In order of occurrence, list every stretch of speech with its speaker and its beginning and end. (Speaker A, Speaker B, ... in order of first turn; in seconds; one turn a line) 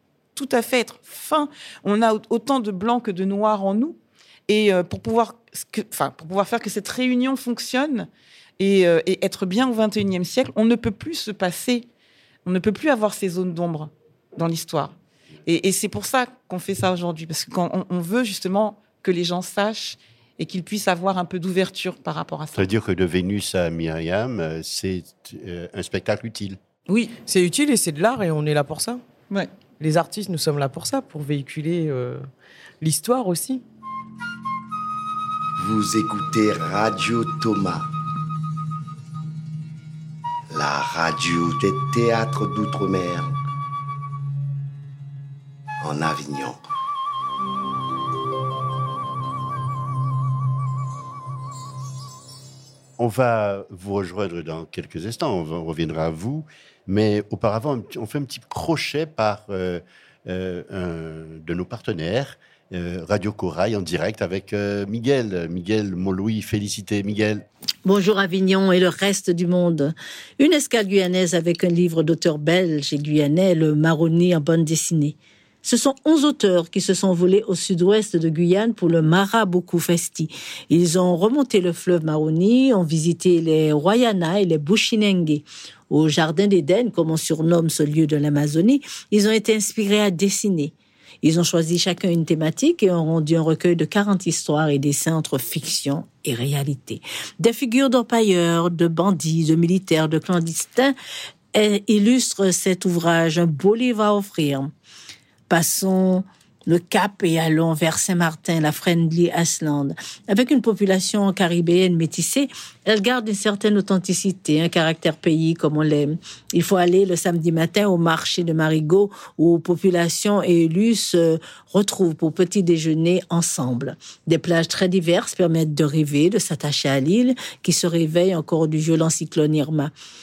Speaker A: 0.3-4.0
Speaker A: 4.5-8.1
Speaker A: 8.6-11.8
Speaker A: 12.4-14.9
Speaker A: 15.4-22.7
Speaker B: 22.5-26.6
Speaker A: 26.9-27.1
Speaker C: 27.2-29.0
Speaker C: 29.8-32.2
Speaker C: 32.8-33.6
Speaker D: 35.6-37.8
Speaker D: 40.5-43.3
Speaker D: 45.8-46.6
Speaker B: 53.0-67.5
Speaker E: 67.8-100.9
Speaker E: 101.5-104.7
Speaker E: 105.5-129.9